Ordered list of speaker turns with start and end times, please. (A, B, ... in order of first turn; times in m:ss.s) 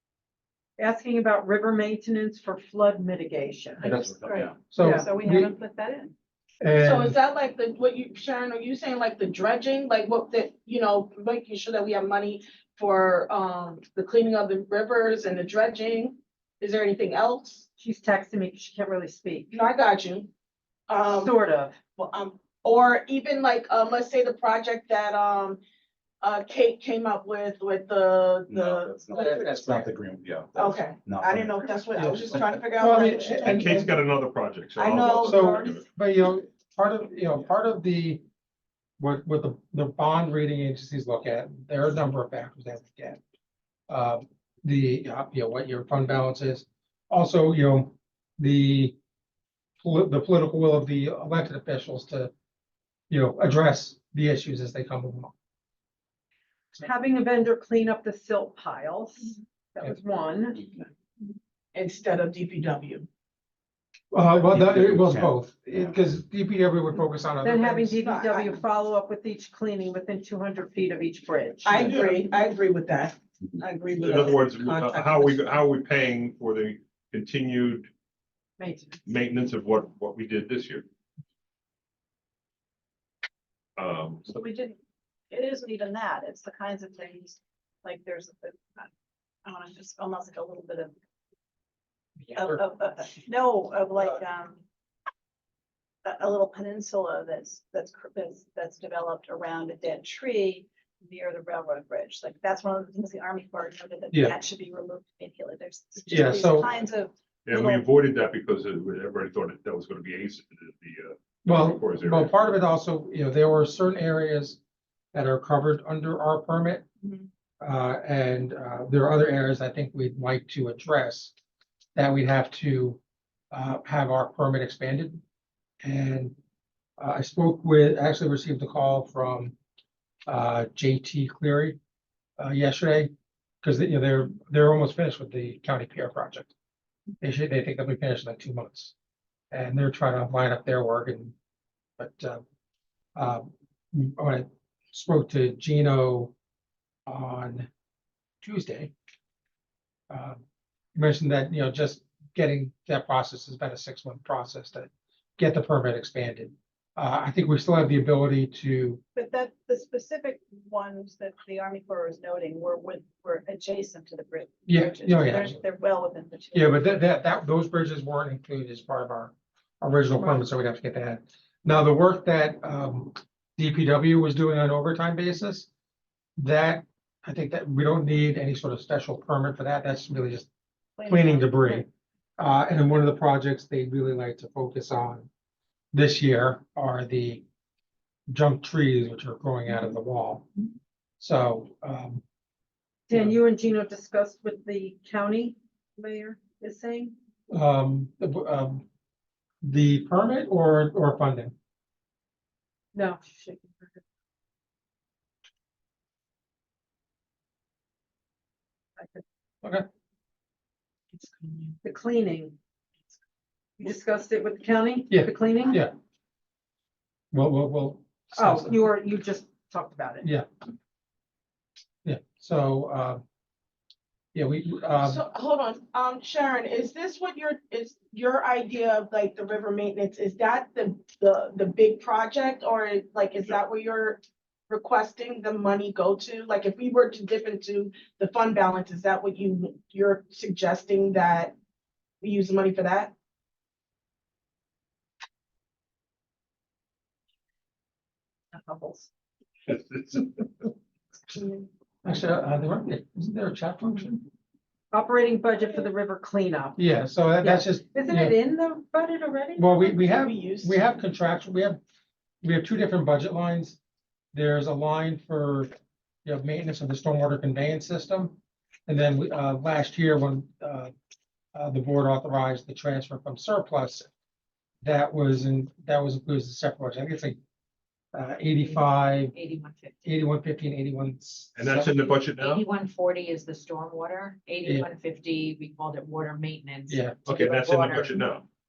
0:00.8-0:04.0 A
0:03.8-0:06.1 B
0:03.8-0:05.5 C
0:04.2-0:04.6 D
0:04.8-0:05.1 A
0:06.6-0:07.2 C
0:06.8-0:17.6 E
0:17.8-0:19.5 A
0:19.5-0:20.3 E
0:20.9-0:21.4 E
0:21.1-0:21.7 A
0:22.0-0:25.6 E
0:26.2-0:29.6 E
0:28.5-0:32.7 D
0:29.1-0:29.9 C
0:30.6-0:33.7 E
0:32.0-0:34.0 C
0:33.4-0:35.8 F
0:34.8-0:35.8 E
0:35.2-0:38.2 C
0:39.0-0:43.2 C
0:43.9-0:49.0 C
0:49.8-0:52.3 C
0:53.1-0:55.3 C
0:56.7-1:00.6 A
1:01.7-1:03.1 E
1:04.1-1:08.0 C
1:04.3-1:06.0 D
1:07.4-1:12.1 A
1:08.0-1:08.6 E
1:11.6-1:15.4 E
1:14.0-1:17.9 F
1:18.6-1:19.0 A
1:19.0-1:20.8 F
1:23.8-1:24.3 F
1:24.3-1:24.8 B
1:25.3-1:28.9 B
1:29.4-1:30.9 B
1:32.2-1:32.6 C
1:32.3-1:34.6 B
1:36.0-1:47.9 B
1:46.1-1:46.7 C
1:47.4-1:52.4 F
1:51.4-1:54.6 C
1:55.1-1:56.9 C
1:57.6-2:01.3 C
2:02.0-2:03.0 C
2:03.5-2:05.2 C
2:05.8-2:06.3 C
2:07.0-2:09.6 C
2:10.3-2:11.8 C
2:12.4-2:13.1 C
2:13.6-2:16.5 C
2:17.2-2:18.9 C
2:19.5-2:21.3 C
2:22.0-2:22.4 C
2:23.2-2:26.3 C
2:27.1-2:27.7 C
2:28.4-2:28.9 C
2:30.1-2:30.4 C
2:30.9-2:39.0 C
2:39.1-2:47.0 B
2:44.7-2:45.6 C
2:46.5-2:55.7 C
2:56.4-3:00.5 C
3:01.0-3:01.8 B
3:01.1-3:01.9 C
3:02.4-3:05.3 C
3:05.9-3:07.4 C
3:08.3-3:10.5 C
3:11.2-3:12.2 C
3:13.1-3:17.1 A
3:13.1-3:13.4 C
3:17.5-3:18.8 C
3:19.6-3:21.5 C
3:22.9-3:24.0 A
3:31.8-3:32.6 A
3:33.8-3:35.8 A
3:35.1-3:35.9 C
3:37.3-3:38.8 C
3:38.3-3:40.3 A
3:42.0-3:43.2 C
3:44.3-3:45.2 C
3:45.0-4:01.5 E
4:02.2-4:03.1 E
4:08.5-4:09.1 A
4:09.7-4:10.3 F
4:12.0-4:14.3 C
4:14.9-4:16.8 A
4:16.8-4:18.4 C
4:17.4-4:19.8 A
4:19.6-4:21.8 C
4:19.9-4:20.8 E
4:22.4-4:23.8 C
4:24.3-4:25.7 C
4:26.2-4:30.9 C
4:31.5-4:34.1 C
4:34.8-4:37.4 C
4:38.1-4:39.3 C
4:38.6-4:40.0 G
4:40.0-4:41.9 C
4:41.6-4:42.7 F
4:42.1-4:48.2 G
4:46.9-4:47.2 C
4:47.2-4:48.4 F